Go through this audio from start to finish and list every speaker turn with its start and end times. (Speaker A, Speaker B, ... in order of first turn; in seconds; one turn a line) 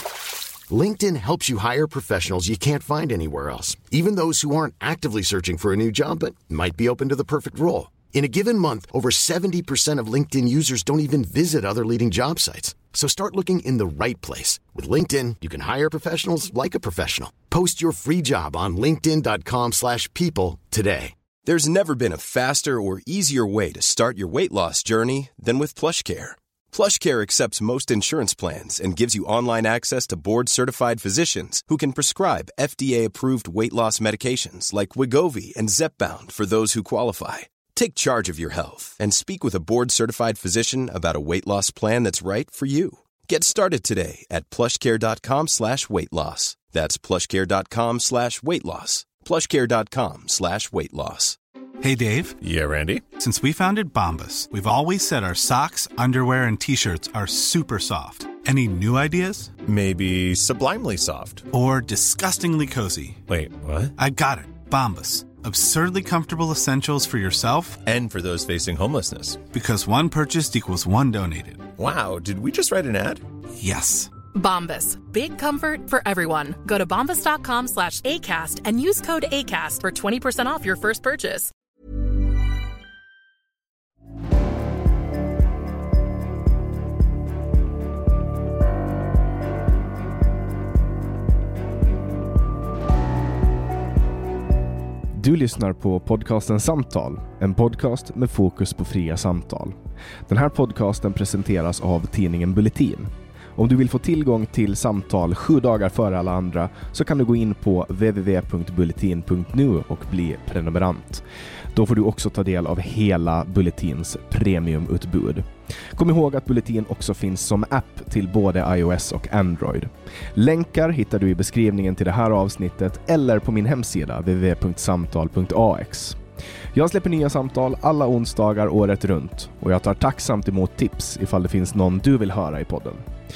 Speaker A: 0.7-21.1
Speaker B: 21.4-51.4
Speaker C: 51.8-52.4
Speaker D: 52.4-53.1
Speaker C: 53.1-59.6
Speaker D: 59.6-61.5
Speaker C: 61.5-63.2
Speaker D: 63.3-63.9
Speaker C: 64.0-67.8
Speaker D: 67.8-69.5
Speaker C: 69.5-71.7
Speaker D: 71.8-73.2
Speaker C: 73.6-74.1
Speaker E: 74.3-81.5
Speaker F: 95.1-99.8
Speaker F: 100.3-126.2
Speaker F: 126.7-133.1